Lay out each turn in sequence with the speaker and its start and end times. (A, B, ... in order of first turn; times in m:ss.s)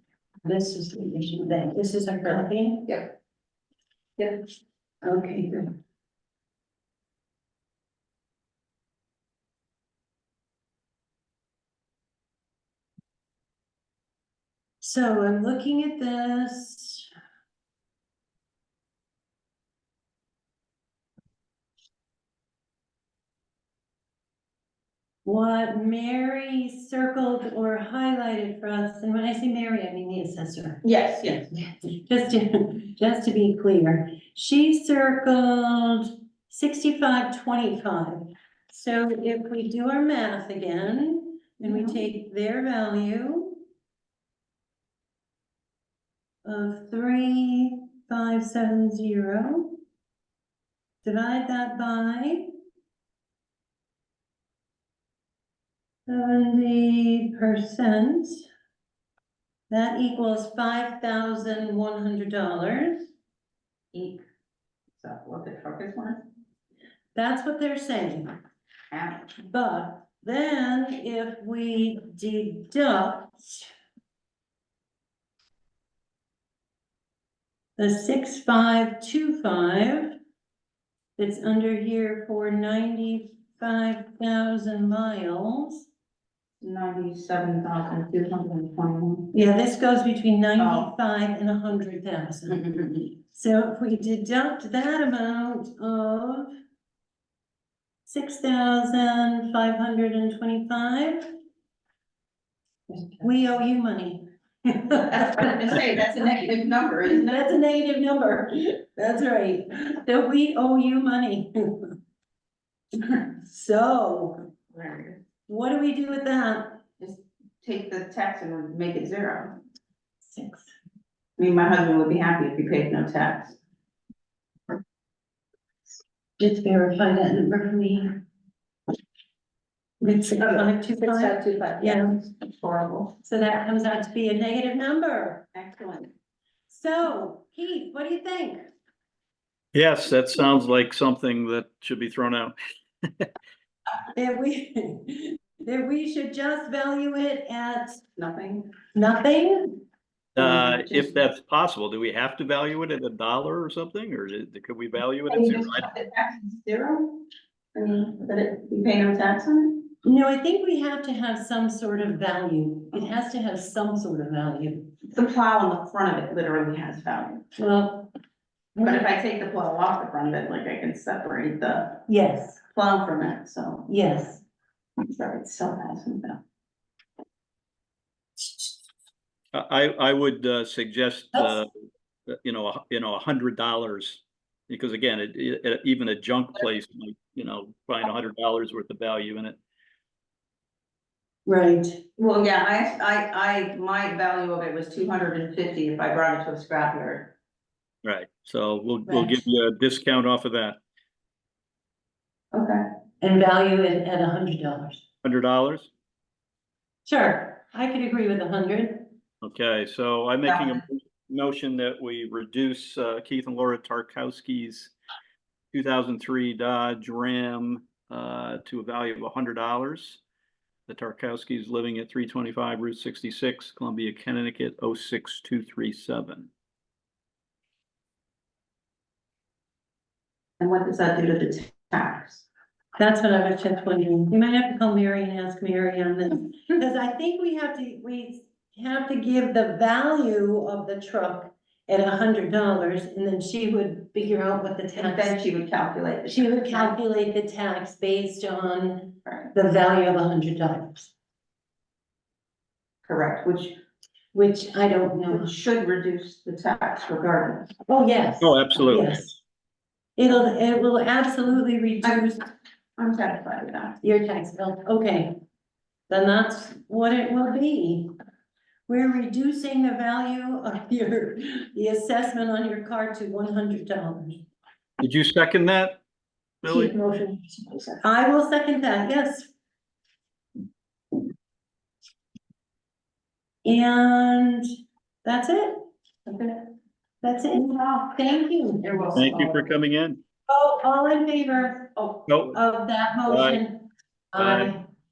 0:00.4-0:02.9 A
0:05.0-0:05.7 A
0:14.8-0:17.1 A
0:25.2-0:43.6 A
0:30.8-0:31.5 B
0:41.7-0:42.0 B
0:46.4-0:49.8 A
0:51.0-0:52.5 A
0:56.1-0:58.4 A
0:59.7-1:03.1 A
1:03.9-1:04.2 B
1:05.0-1:06.2 B
1:07.2-1:08.4 A
1:08.9-1:09.3 B
1:09.4-1:13.7 A
1:17.8-1:20.2 A
1:21.2-1:25.9 A
1:26.6-1:29.3 B
1:29.3-1:32.6 A
1:30.6-1:30.9 B
1:32.5-1:33.1 B
1:33.2-1:36.5 A
1:38.1-1:41.3 A
1:43.2-1:51.9 A
1:45.0-1:47.5 B
1:52.9-1:54.4 A
1:54.7-1:55.2 B
1:55.5-1:56.8 A
1:57.0-1:59.6 B
2:00.3-2:00.7 A
2:01.4-2:03.6 B
2:06.4-2:08.2 A
2:10.0-2:12.1 A
2:10.4-2:13.1 B
2:13.2-2:15.4 A
2:15.5-2:16.1 B
2:16.7-2:18.6 A
2:19.7-2:23.3 C
2:24.2-2:28.0 A
2:28.2-2:28.7 B
2:29.0-2:29.8 A
2:30.4-2:35.9 C
2:30.4-2:31.2 B
2:35.3-2:37.2 B
2:37.8-2:39.9 B
2:40.0-2:44.9 A
2:45.1-2:47.4 B
2:47.6-2:48.1 A
2:48.8-2:49.1 A
2:48.8-2:52.0 B
2:52.1-2:52.6 A
2:52.7-2:53.9 B
2:53.9-2:54.4 A
2:55.0-2:56.4 B
2:58.4-2:58.7 A
2:59.5-3:01.7 C
3:01.3-3:01.6 A
3:02.3-3:09.6 C
3:11.5-3:12.0 A
3:12.2-3:17.3 B
3:18.0-3:20.8 C
3:19.1-3:19.4 B
3:22.5-3:22.8 B
3:23.2-3:25.0 A
3:25.2-3:25.9 C
3:27.1-3:29.1 A
3:29.4-3:34.9 C
3:30.4-3:30.8 B
3:35.7-3:40.2 C
3:40.9-3:46.5 C
3:50.6-3:52.5 B
3:53.0-4:05.5 A
4:05.0-4:06.9 B
4:06.3-4:11.1 A
4:09.3-4:09.5 B
4:13.1-4:13.8 B
4:14.3-4:15.5 A
4:15.3-4:17.7 B
4:17.9-4:19.4 A
4:18.4-4:19.1 C
4:20.2-4:22.4 A
4:22.0-4:22.3 B
4:23.0-4:24.0 B
4:24.0-4:25.3 A
4:26.1-4:28.1 A
4:28.9-4:34.5 A
4:35.0-4:36.0 C
4:36.6-4:37.0 C
4:38.0-4:39.5 A
4:43.6-4:44.7 A
4:45.2-4:45.8 A
4:46.3-4:46.6 B
4:47.2-4:49.2 A
4:48.8-4:49.7 B
4:49.2-4:50.2 C
4:50.5-4:51.9 A
4:52.0-4:52.3 B
4:52.3-4:52.6 C
4:52.5-4:54.8 A
4:53.3-4:53.6 C
4:54.4-4:54.7 C